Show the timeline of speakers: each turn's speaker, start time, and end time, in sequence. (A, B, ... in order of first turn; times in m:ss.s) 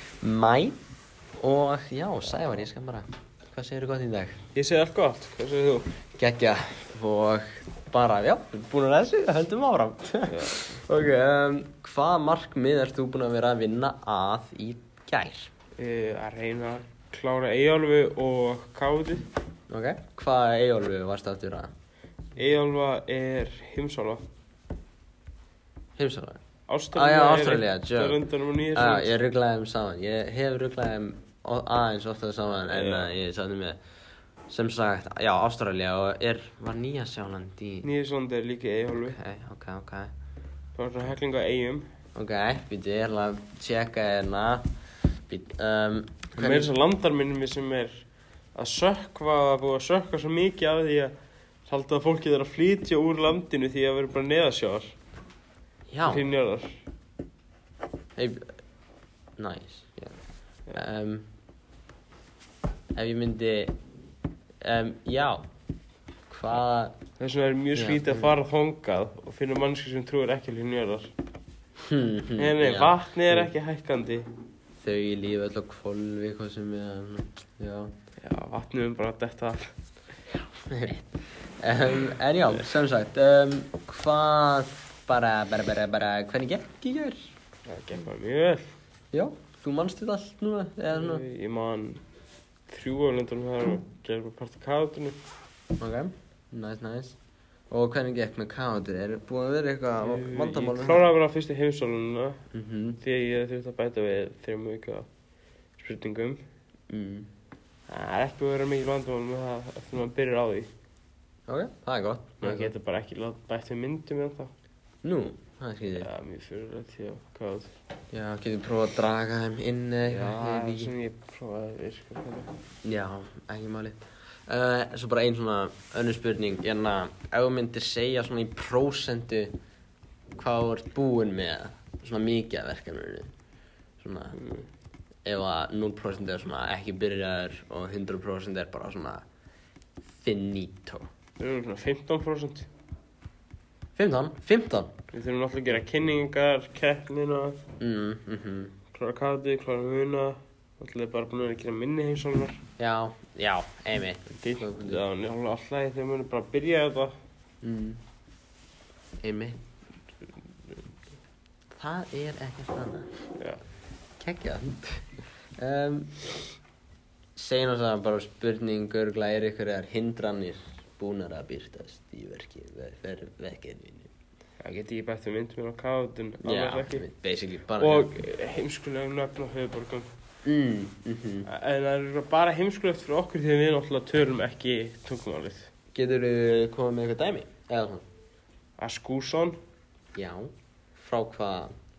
0:00.2-0:00.8 A
0:01.4-0:04.4 A
0:04.5-0:05.9 B
0:06.2-0:15.5 A
0:10.3-0:10.8 B
0:15.8-0:19.3 B
0:19.7-0:21.7 A
0:22.4-0:24.2 B
0:26.0-0:26.4 A
0:26.7-0:29.1 B
0:26.9-0:28.2 A
0:28.7-0:33.8 A
0:32.7-0:33.2 B
0:34.5-0:37.9 A
0:37.8-0:39.2 B
0:39.0-0:40.1 A
0:40.8-0:41.9 B
0:42.2-0:44.7 A
0:45.3-0:46.7 A
0:46.4-0:51.1 B
0:51.7-0:55.0 B
0:55.9-0:56.3 A
0:56.0-0:56.8 B
0:58.2-0:58.6 A
0:59.4-1:00.2 A
1:00.7-1:01.3 A
1:03.0-1:03.8 A
1:04.6-1:05.4 A
1:06.3-1:07.0 A
1:07.2-1:11.1 B
1:07.8-1:08.3 A
1:11.8-1:13.5 A
1:12.4-1:14.3 B
1:14.8-1:17.9 A
1:18.2-1:19.7 B
1:20.7-1:27.3 A
1:27.7-1:28.7 B
1:29.1-1:31.2 A
1:30.9-1:32.0 B
1:32.7-1:35.2 B
1:35.8-1:37.2 A
1:37.7-1:41.1 A
1:40.0-1:42.4 B
1:42.5-1:43.0 A
1:43.0-1:45.1 B
1:45.8-1:46.4 B
1:46.9-1:47.3 A
1:47.9-1:50.7 B
1:51.5-1:52.7 A
1:52.4-1:54.5 B
1:55.0-1:56.1 A
1:56.0-1:57.7 B
1:58.1-2:00.9 A
2:00.1-2:02.5 B
2:02.8-2:09.6 A
2:10.4-2:13.3 A
2:14.0-2:14.4 A
2:14.4-2:14.7 B
2:15.3-2:19.2 A
2:20.2-2:21.1 A
2:21.4-2:22.7 B
2:24.0-2:24.9 A
2:25.1-2:27.6 B
2:27.8-2:28.8 A
2:28.9-2:32.6 B
2:32.8-2:35.0 A
2:34.4-2:37.2 B
2:37.6-2:38.0 A
2:39.2-2:39.6 A
2:41.7-2:43.1 A
2:43.4-2:43.6 B
2:44.2-2:46.2 A
2:47.4-2:54.1 A
2:54.6-2:57.0 B
2:56.4-2:58.1 A
2:57.8-3:00.1 B
3:00.4-3:01.5 A
3:01.5-3:05.7 B
3:05.9-3:08.0 A
3:08.8-3:09.6 B
3:10.2-3:11.7 A